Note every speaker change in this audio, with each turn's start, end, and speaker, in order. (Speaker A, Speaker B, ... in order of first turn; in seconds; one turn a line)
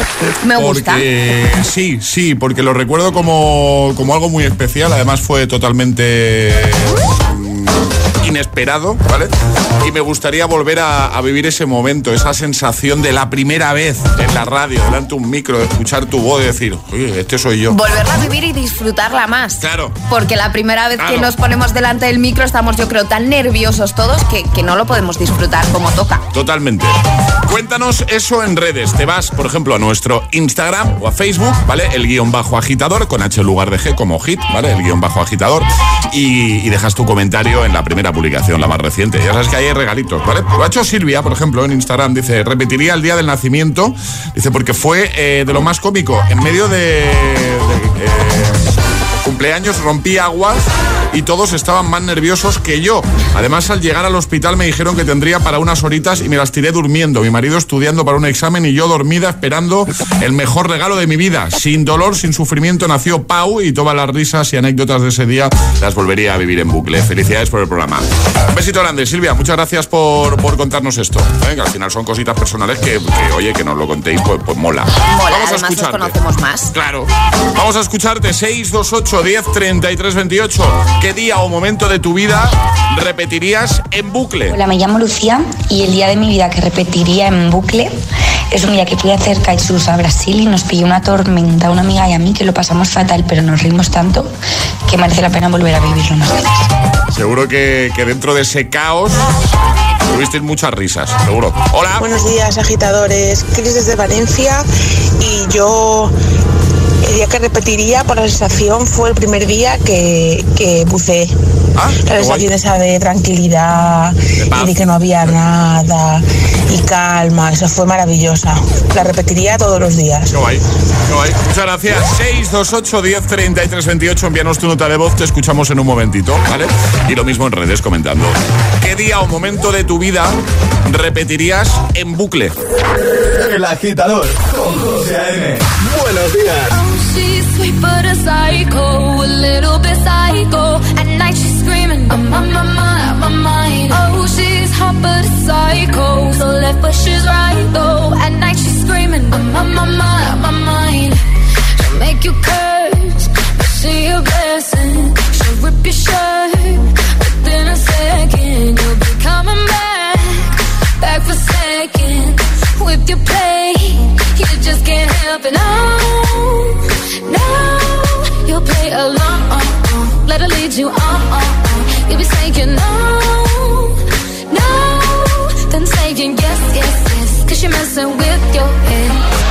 Speaker A: 0.4-1.0
Speaker B: 0.5-17.8
Speaker A: 17.7-26.2
Speaker B: 19.6-20.0
Speaker B: 21.0-21.3
Speaker B: 26.3-48.7
Speaker B: 49.2-76.2
Speaker A: 75.1-76.7
Speaker B: 76.7-84.6
Speaker C: 84.5-87.9
Speaker C: 88.5-94.3
Speaker C: 94.9-96.6
Speaker B: 97.1-99.3
Speaker B: 100.1-102.2
Speaker D: 102.0-104.7
Speaker D: 105.2-106.1
Speaker D: 107.0-111.3
Speaker B: 111.8-112.5
Speaker D: 112.0-120.3
Speaker B: 114.4-115.4
Speaker B: 120.3-132.6
Speaker E: 133.2-136.8
Speaker F: 136.7-151.2
Speaker F: 151.8-179.2